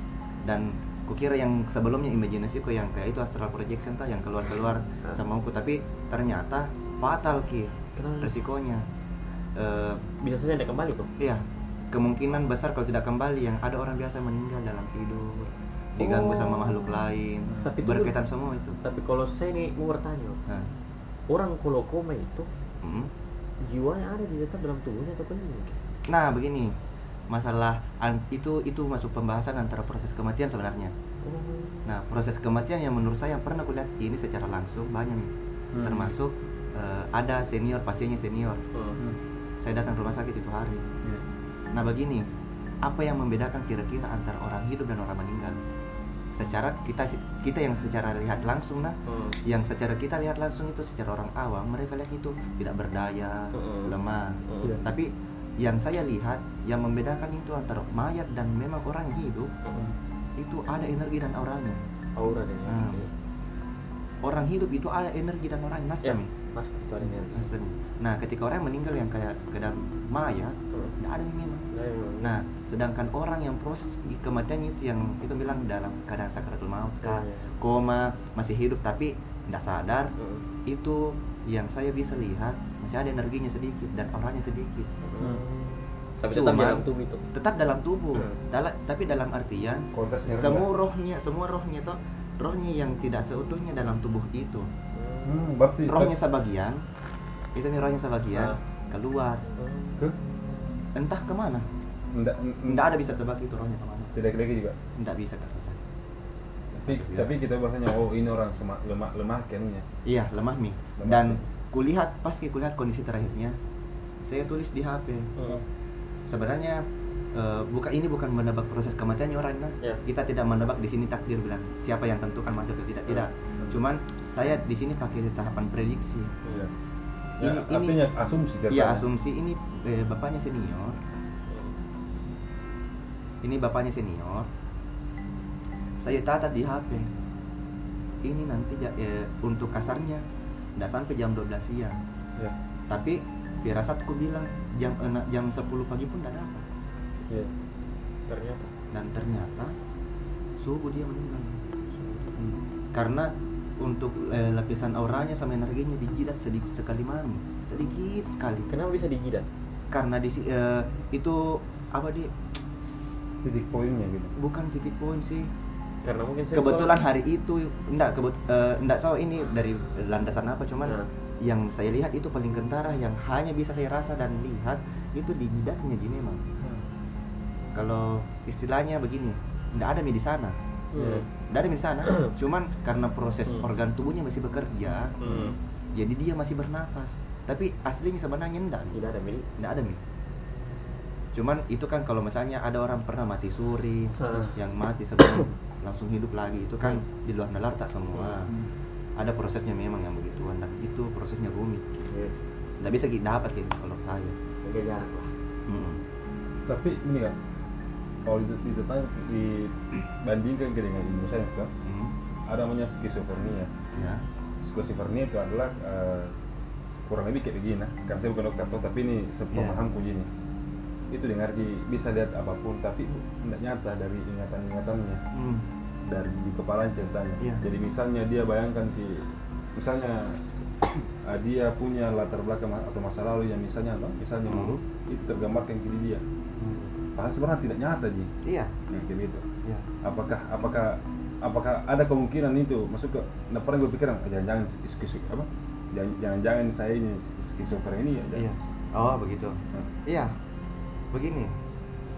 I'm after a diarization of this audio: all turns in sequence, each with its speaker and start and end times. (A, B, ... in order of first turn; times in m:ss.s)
0:00.4-0:08.9 A
0:08.0-0:08.4 B
0:09.6-0:10.0 A
0:10.2-0:11.1 B
0:11.2-0:18.8 A
0:16.0-0:17.0 B
0:17.6-0:18.2 B
0:18.8-0:20.4 B
0:21.3-0:22.5 B
0:22.8-0:23.1 A
0:23.6-0:25.8 B
0:26.1-0:26.8 A
0:27.3-0:30.9 A
0:31.2-0:31.8 B
0:31.8-0:38.6 A
0:35.7-0:36.1 C
0:38.7-0:39.0 B
0:39.6-0:40.8 A
0:41.7-0:42.2 A
0:42.8-0:45.6 A
0:46.4-0:59.6 A
0:49.1-0:49.4 B
0:53.5-0:53.9 B
0:54.5-0:54.8 B
1:00.4-1:01.8 A
1:02.2-1:03.1 B
1:02.7-1:03.0 A
1:04.2-1:06.3 A
1:06.0-1:07.5 B
1:07.3-1:11.7 A
1:10.7-1:11.0 B
1:11.7-1:12.3 B
1:12.2-1:20.1 A
1:17.0-1:17.5 B
1:20.2-1:20.4 B
1:20.6-1:24.9 A
1:25.0-1:27.2 B
1:26.3-1:34.7 A
1:29.9-1:30.7 C
1:34.9-1:35.5 B
1:35.2-1:36.2 C
1:35.8-1:36.8 A
1:37.5-1:39.4 A
1:38.3-1:38.6 B
1:39.6-1:40.0 B
1:40.9-1:41.6 A
1:42.1-1:42.8 C
1:42.6-1:44.1 A
1:44.1-1:44.8 C
1:45.0-1:45.8 A
1:46.7-1:47.3 A
1:46.8-1:49.8 C
1:50.0-1:53.6 A
1:51.0-1:51.4 C
1:54.2-1:55.3 A
1:55.4-1:55.6 B
1:56.3-1:56.8 A
1:57.3-2:06.4 A
2:07.4-2:08.0 A
2:07.4-2:09.0 C
2:08.7-2:11.0 A
2:11.5-2:11.8 B
2:13.4-2:14.5 A
2:16.0-2:17.1 A
2:18.2-2:20.2 A
2:20.8-2:22.0 A
2:22.9-2:26.6 A
2:28.3-2:28.7 B
2:28.9-2:29.7 A
2:30.6-2:31.6 A
2:32.0-2:32.3 B
2:32.9-2:38.7 A
2:38.7-2:39.5 B
2:39.9-2:42.3 A
2:43.4-2:44.3 C
2:44.4-2:45.5 A
2:46.0-2:47.0 B
2:46.5-2:56.4 A
2:57.7-3:00.6 A
3:00.9-3:01.3 B
3:00.9-3:01.2 C
3:01.5-3:05.2 A
3:02.0-3:02.3 B
3:05.2-3:05.5 B
3:05.2-3:05.6 C
3:05.9-3:09.0 A
3:08.9-3:09.5 B
3:09.6-3:10.0 A
3:11.3-3:18.5 A
3:14.2-3:14.5 B
3:19.2-3:22.1 A
3:22.1-3:22.3 B
3:22.8-3:24.4 A
3:24.6-3:25.3 B
3:25.7-3:26.0 A
3:26.6-3:27.3 C
3:28.2-3:31.7 C
3:31.8-3:32.2 A
3:32.5-3:33.7 C
3:33.9-3:34.2 A
3:34.6-3:36.3 C
3:37.0-3:40.3 C
3:39.5-3:39.8 A
3:41.1-3:45.2 C
3:45.3-3:45.7 A
3:46.1-3:56.2 C
3:54.4-3:54.8 A
3:56.6-3:56.9 A
3:57.2-3:58.3 C
3:58.4-3:58.7 A
3:58.9-3:59.4 C
4:00.0-4:08.5 C
4:08.3-4:10.3 A
4:11.1-4:11.5 A